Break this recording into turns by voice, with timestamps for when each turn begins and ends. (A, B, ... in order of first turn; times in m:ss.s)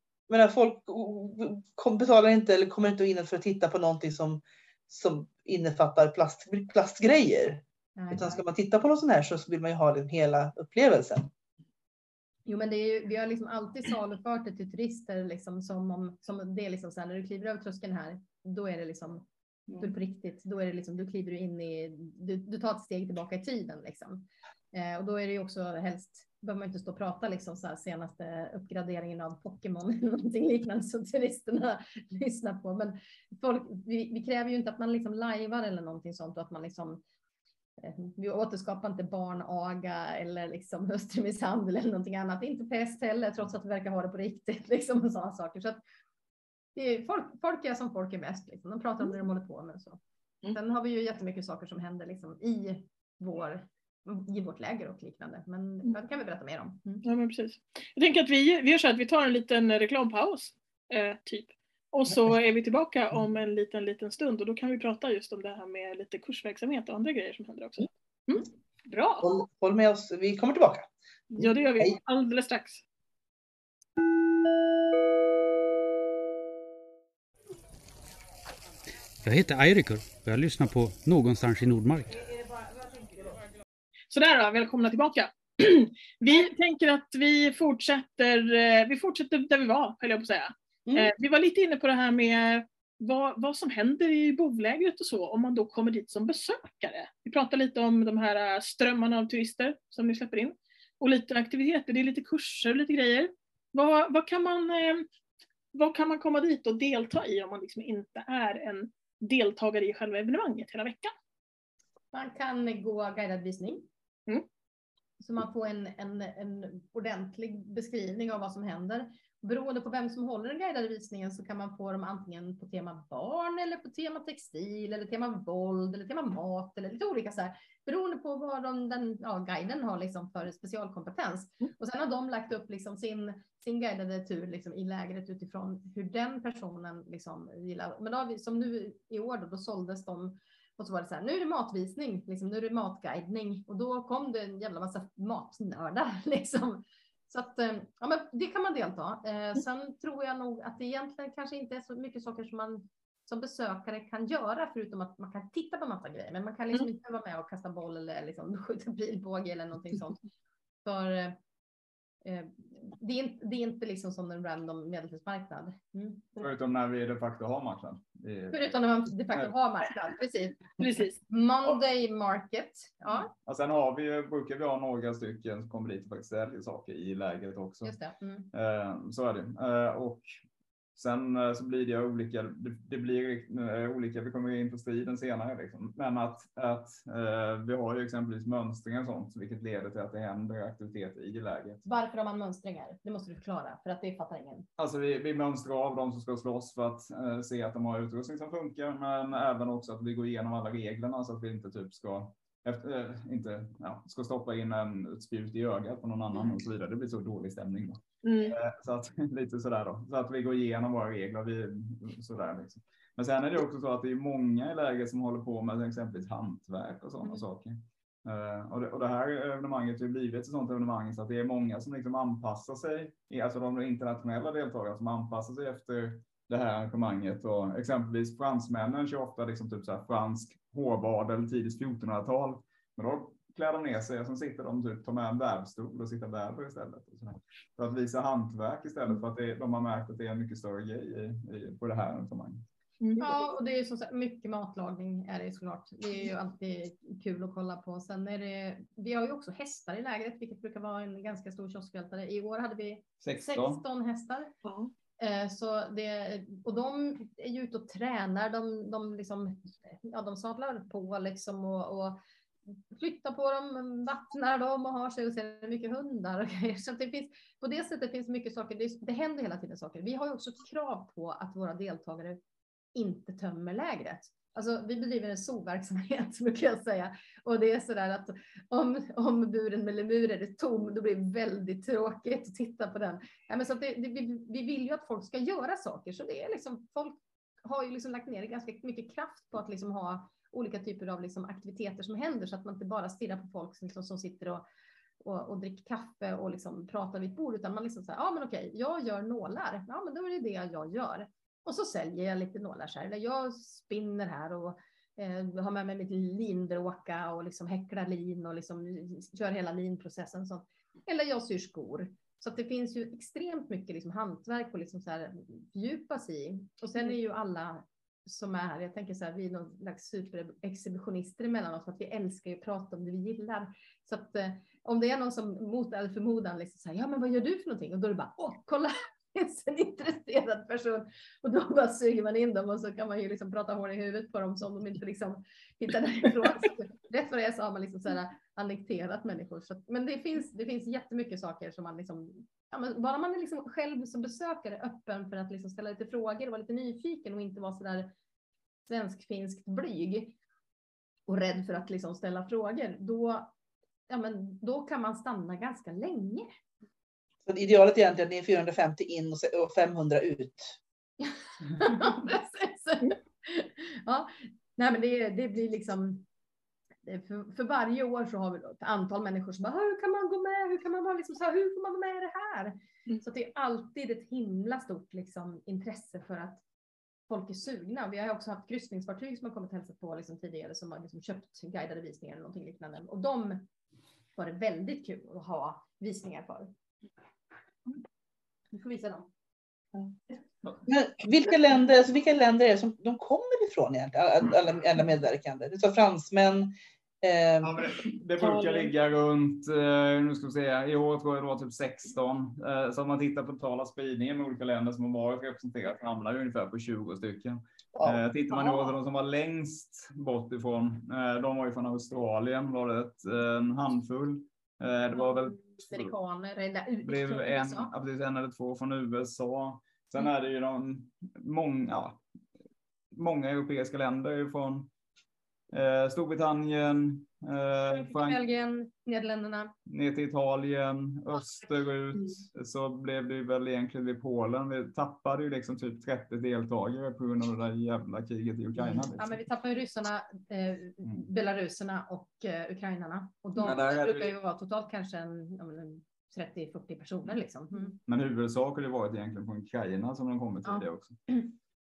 0:00.3-0:11.3 A
0:08.0-0:08.4 B
0:12.4-0:19.2 B
0:19.8-0:37.0 B
0:37.8-0:45.8 B
0:46.7-0:50.0 B
0:50.5-0:57.0 B
0:57.0-1:09.3 C
1:09.2-1:12.0 A
1:11.3-1:12.8 C
1:19.2-1:22.2 D
1:24.1-1:45.0 C
1:30.8-1:31.1 B
1:45.7-1:51.1 C
1:52.1-1:53.8 B
1:55.2-2:40.2 B
2:40.8-2:41.4 B
2:42.2-2:46.5 B
2:46.4-2:48.7 E
2:48.5-2:50.8 B
2:50.8-2:51.2 C
2:51.3-2:53.3 B
2:53.4-2:58.0 E
2:57.8-2:58.5 B
2:58.5-3:00.3 E
3:00.9-3:11.8 E
3:11.8-3:14.7 B
3:14.8-4:02.6 E
3:28.2-3:28.6 C
4:03.0-4:03.3 C
4:03.2-4:14.5 B
4:13.2-4:13.8 E
4:14.6-4:14.9 C
4:15.2-4:22.2 B
4:22.9-4:32.4 B
4:32.9-4:54.6 B
4:55.2-5:48.1 B
5:48.9-5:50.3 B
5:51.3-5:53.5 B
5:54.1-5:56.5 B
5:57.5-6:00.8 A
6:01.7-6:06.3 B
6:07.0-6:16.6 B
6:17.3-6:23.6 B
6:24.3-6:26.7 B
6:28.7-6:29.3 B
6:30.8-6:37.8 A
6:37.6-6:56.1 E
6:38.4-6:38.9 C
6:55.2-6:57.9 B
6:57.0-7:02.2 E
7:03.1-7:04.9 E
7:05.7-7:08.4 E
7:07.9-7:09.7 B
7:09.9-7:19.4 E
7:19.2-7:28.0 B
7:23.6-7:24.3 E
7:28.0-7:31.2 E
7:30.6-7:31.5 B